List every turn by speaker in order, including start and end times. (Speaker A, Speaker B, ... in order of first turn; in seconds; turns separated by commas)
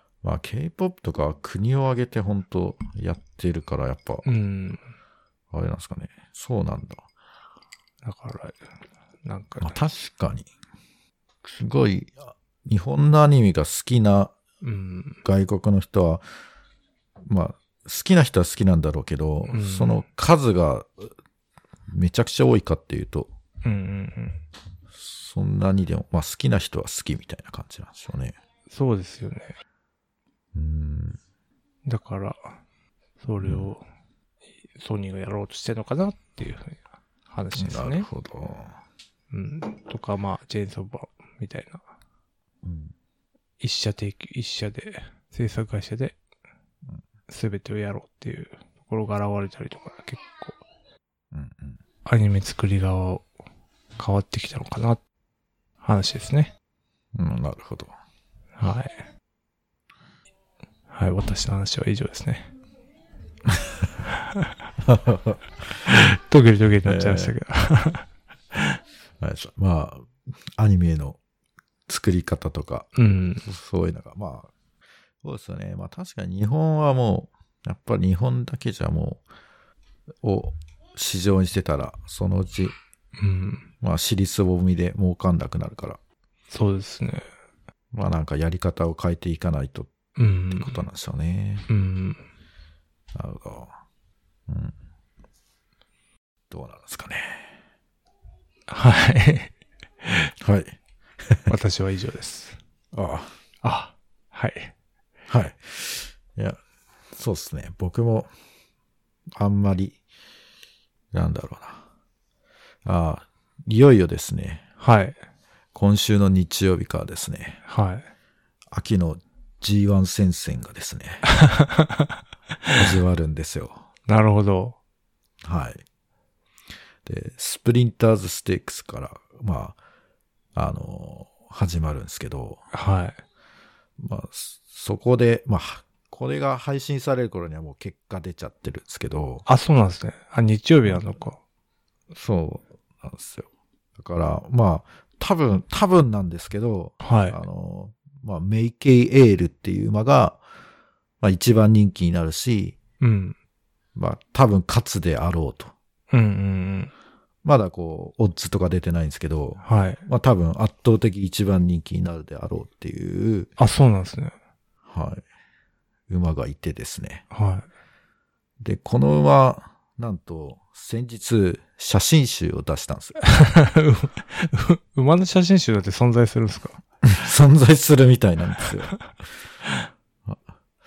Speaker A: 0.2-4.2, Speaker B: 4.2-4.9, Speaker A: 5.5-7.0, Speaker B: 8.0-8.6, Speaker B: 9.2-9.9, Speaker A: 9.6-10.5, Speaker A: 11.5-14.3, Speaker B: 14.6-15.2, Speaker A: 15.2-16.2, Speaker A: 17.2-21.1, Speaker B: 19.5-20.1, Speaker A: 21.9-23.3, Speaker B: 23.6-24.4, Speaker A: 24.9-28.4, Speaker B: 28.7-29.6, Speaker A: 30.5-31.2, Speaker B: 31.9-32.5, Speaker B: 33.2-33.8, Speaker A: 33.4-33.7, Speaker B: 34.8-38.1, Speaker A: 37.5-38.8, Speaker B: 39.3-41.8, Speaker A: 42.6-42.9, Speaker B: 43.6-46.2, Speaker B: 47.3-50.6, Speaker A: 51.3-51.8, Speaker B: 52.0-53.3, Speaker B: 54.0-55.0, Speaker B: 55.8-56.5, Speaker A: 57.1-57.9, Speaker B: 58.6-59.0, Speaker B: 60.9-62.5, Speaker A: 63.5-63.9, Speaker A: 64.8-65.4, Speaker B: 65.8-68.8, Speaker A: 66.8-67.3, Speaker A: 69.2-71.2, Speaker A: 71.9-74.5, Speaker B: 73.0-73.5, Speaker A: 75.2-79.2, Speaker A: 80.2-82.8, Speaker B: 83.2-83.7, Speaker A: 83.8-86.0, Speaker B: 86.5-87.3, Speaker A: 87.9-89.9, Speaker B: 90.2-90.8, Speaker A: 90.5-91.7, Speaker B: 91.7-92.2, Speaker A: 93.1-93.7, Speaker A: 94.5-94.8, Speaker A: 96.5-97.5, Speaker B: 98.7-99.5, Speaker B: 100.0-100.3, Speaker A: 100.4-100.7, Speaker B: 101.5-102.6, Speaker A: 102.9-103.3, Speaker B: 103.6-104.7, Speaker A: 105.3-106.6, Speaker A: 107.1-108.3, Speaker A: 109.4-110.0, Speaker A: 111.1-111.8, Speaker A: 112.8-114.6, Speaker B: 114.8-115.2, Speaker A: 115.8-117.6, Speaker B: 117.7-118.1, Speaker A: 118.7-121.2, Speaker B: 121.4-122.1, Speaker A: 122.8-123.8, Speaker B: 124.1-124.8, Speaker A: 125.4-125.8, Speaker A: 127.0-129.8, Speaker A: 130.6-132.6, Speaker B: 132.7-133.2, Speaker A: 134.0-139.4, Speaker B: 139.5-141.4, Speaker A: 140.8-141.2, Speaker A: 142.1-150.4, Speaker B: 147.0-147.4, Speaker A: 151.2-152.8, Speaker B: 153.0-153.4, Speaker A: 154.0-155.7, Speaker B: 156.1-156.9, Speaker A: 157.4-163.5, Speaker B: 159.6-160.0, Speaker B: 163.6-164.3, Speaker A: 164.9-165.2, Speaker A: 166.1-167.2, Speaker B: 167.3-167.7, Speaker A: 168.6-173.2, Speaker B: 173.3-176.8, Speaker A: 177.0-178.9